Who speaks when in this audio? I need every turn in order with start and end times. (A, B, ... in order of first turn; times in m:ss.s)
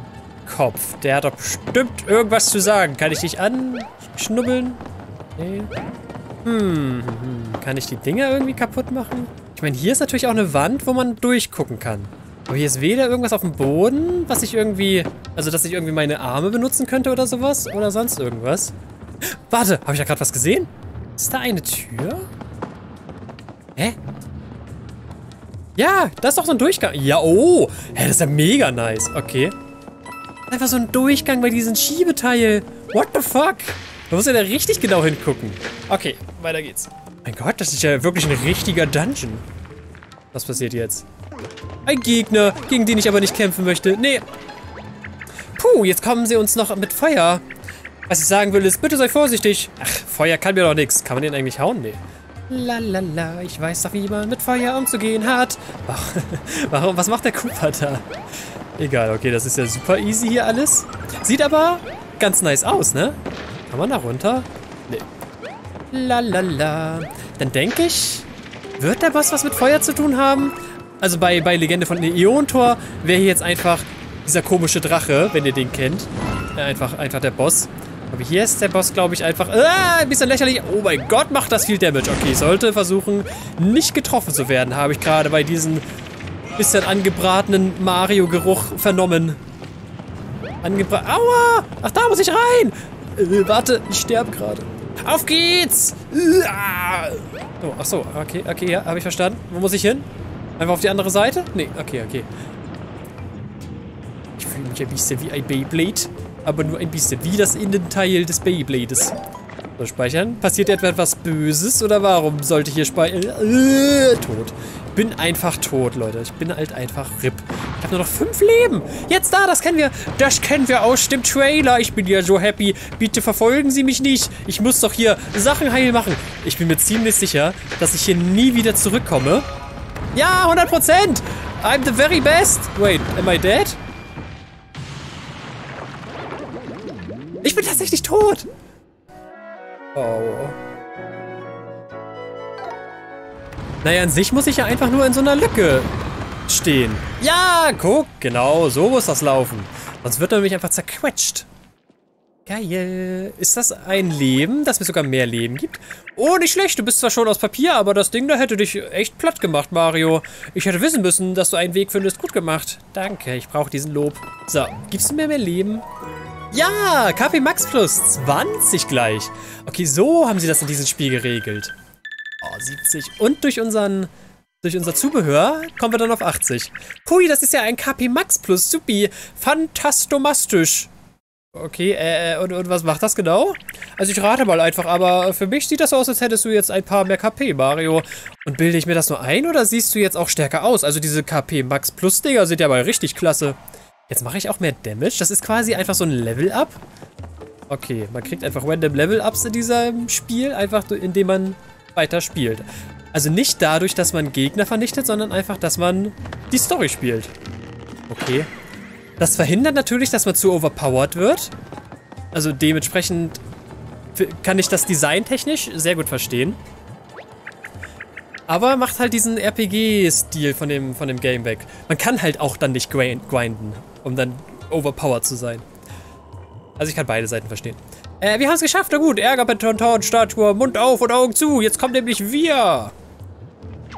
0:00.4-0:04.8 A
0:05.4-0:05.7 A
0:06.4-0:22.3 A
0:25.8-0:29.5 A
0:30.5-0:39.4 A
0:40.3-0:41.0 A
0:41.8-0:44.2 A
0:45.6-0:47.4 A
0:48.1-0:58.0 A
0:58.8-1:05.0 A
1:05.9-1:08.3 A
1:08.8-1:25.8 A
1:26.6-1:29.4 A
1:30.6-1:40.0 A
1:40.6-1:42.3 A
1:44.4-1:49.1 A
1:49.8-2:09.4 A
2:10.1-2:13.8 A
2:17.4-2:18.5 A
2:19.9-2:20.6 A
2:23.8-2:25.9 A
2:26.5-2:31.5 A
2:32.4-2:45.8 A
2:46.5-2:51.7 A
2:52.4-2:54.1 A
2:54.6-3:00.9 A
3:01.5-3:16.8 A
3:17.7-3:27.3 A
3:28.1-3:28.5 A
3:29.2-3:31.5 A
3:32.3-3:33.4 A
3:34.1-3:36.6 A
3:38.5-3:45.6 A
3:46.8-3:52.9 A